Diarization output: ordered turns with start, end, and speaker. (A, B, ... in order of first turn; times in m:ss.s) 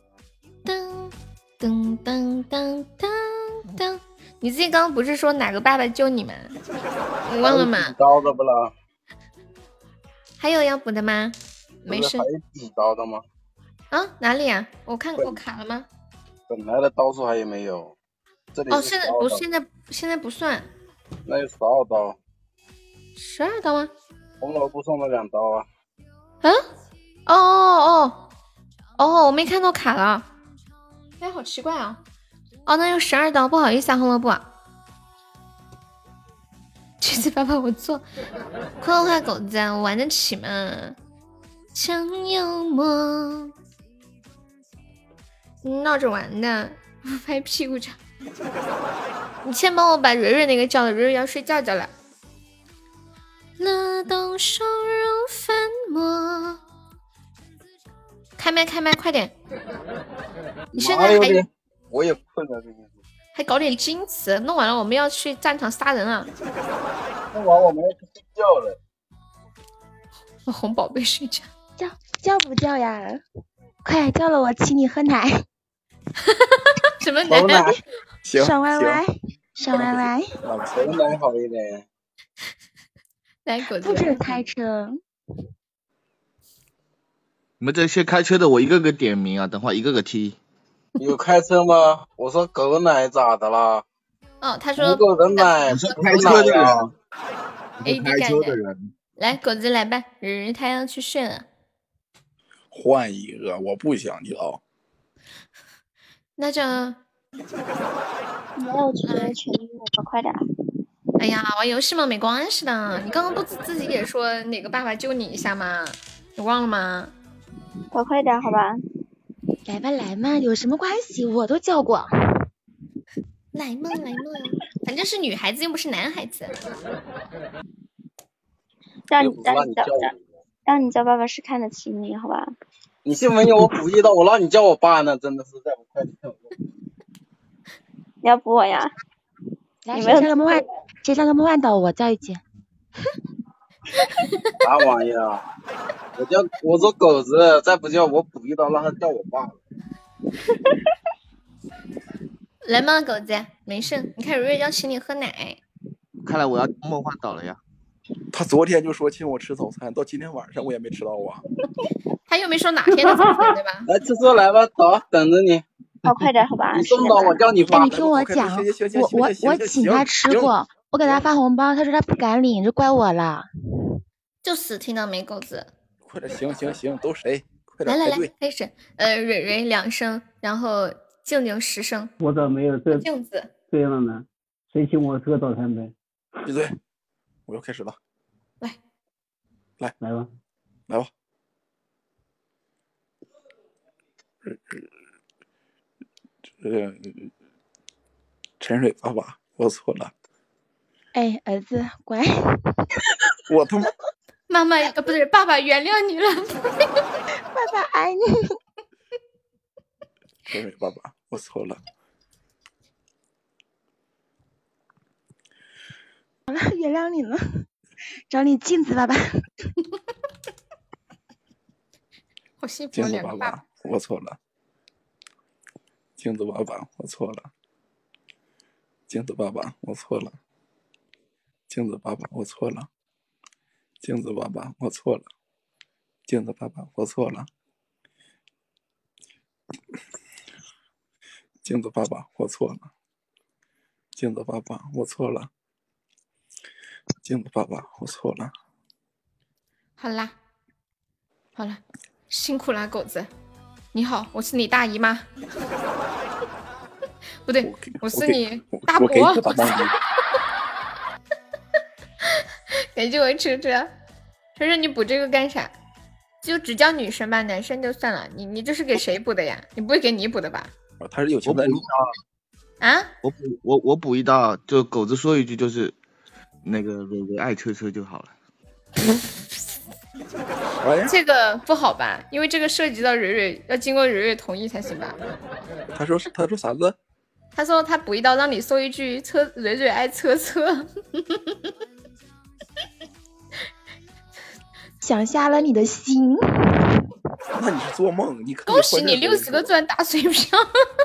0:00.6-0:06.6 A
0:07.2-0:08.0 A
0:07.4-0:08.7 B
0:10.4-0:11.4 A
0:11.9-0:13.2 B
0:11.9-0:12.3 A
0:13.9-0:15.9 A
0:16.5-0:17.9 B
0:18.5-0:19.4 B
0:18.7-0:20.7 A
0:21.3-0:22.2 B
0:23.2-0:23.9 A
0:24.4-0:25.7 B
0:27.3-0:28.3 A
0:29.0-0:30.3 A
0:31.2-0:32.0 A
0:32.7-0:34.5 A
0:37.0-0:38.0 A
0:38.8-0:41.0 A
0:41.8-0:43.5 A
0:45.6-0:48.0 A
0:49.4-0:51.9 A
0:53.6-0:56.6 A
0:58.4-0:59.3 A
1:00.7-1:02.9 B
1:00.8-1:01.4 A
1:03.4-1:06.3 A
1:07.3-1:08.8 B
1:10.5-1:11.5 A
1:11.8-1:13.2 C
1:13.8-1:15.4 C
1:16.3-1:17.7 A
1:17.3-1:17.8 B
1:18.2-1:19.0 D
1:18.4-1:20.3 C
1:19.7-1:21.2 D
1:20.7-1:21.9 B
1:23.5-1:24.2 A
1:23.8-1:25.0 C
1:27.6-1:30.4 E
1:31.0-1:33.8 B
1:34.4-1:35.5 A
1:34.8-1:36.9 B
1:35.7-1:36.9 E
1:37.8-1:38.9 E
1:37.8-1:38.6 A
1:39.2-1:41.4 A
1:42.7-1:44.6 D
1:46.4-1:47.0 A
1:48.6-1:50.4 F
1:49.1-1:49.4 A
1:51.2-1:57.1 A
1:57.9-1:58.8 F
1:59.7-2:02.4 C
2:03.5-2:06.6 A
2:09.1-2:10.1 F
2:09.2-2:10.2 B
2:10.7-2:12.5 F
2:13.0-2:16.5 B
2:18.2-2:18.9 F
2:19.8-2:22.4 C
2:19.9-2:20.6 F
2:24.6-2:25.4 B
2:26.2-2:29.6 B
2:32.6-2:35.6 A
2:36.2-2:37.6 E
2:38.3-2:41.4 D
2:42.3-2:43.9 A
2:43.9-2:45.6 B
2:46.0-2:47.5 F
2:46.7-2:47.9 B
2:47.6-2:51.2 D
2:47.7-2:54.0 C
2:54.4-2:55.7 A
2:56.0-2:58.3 D
2:57.9-3:02.1 A
3:02.2-3:03.1 G
3:02.9-3:03.5 A
3:03.7-3:05.9 G
3:06.4-3:06.8 D
3:07.5-3:08.0 D
3:10.0-3:10.3 G
3:14.4-3:14.9 D
3:16.6-3:17.3 D
3:18.6-3:20.1 D
3:21.1-3:22.9 C
3:23.5-3:23.9 D
3:24.5-3:26.8 A
3:27.5-3:28.6 C
3:30.5-3:31.8 D
3:36.5-3:37.7 C
3:38.3-3:39.4 C
3:42.6-3:43.6 A
3:42.9-3:44.4 D
3:46.2-3:47.5 D
3:49.1-3:50.4 D
3:51.7-3:52.9 D
3:54.0-3:55.3 D
3:56.3-3:57.5 D
4:01.6-4:02.9 D
4:04.2-4:05.5 D
4:07.2-4:08.5 D
4:10.0-4:10.4 A
4:11.6-4:13.3 A
4:13.9-4:15.3 A
4:17.5-4:19.9 A
4:17.6-4:20.0 D
4:23.0-4:23.9 A
4:24.6-4:25.7 A
4:26.4-4:30.7 A
4:31.0-4:31.9 D
4:31.4-4:32.1 E
4:32.8-4:33.1 A
4:33.2-4:36.0 E
4:36.6-4:38.3 E
4:40.8-4:41.2 D
4:41.0-4:45.2 A
4:45.9-4:47.0 D
4:47.6-4:51.4 A
4:55.0-4:57.0 C
4:57.6-4:59.7 D
4:58.7-5:00.7 A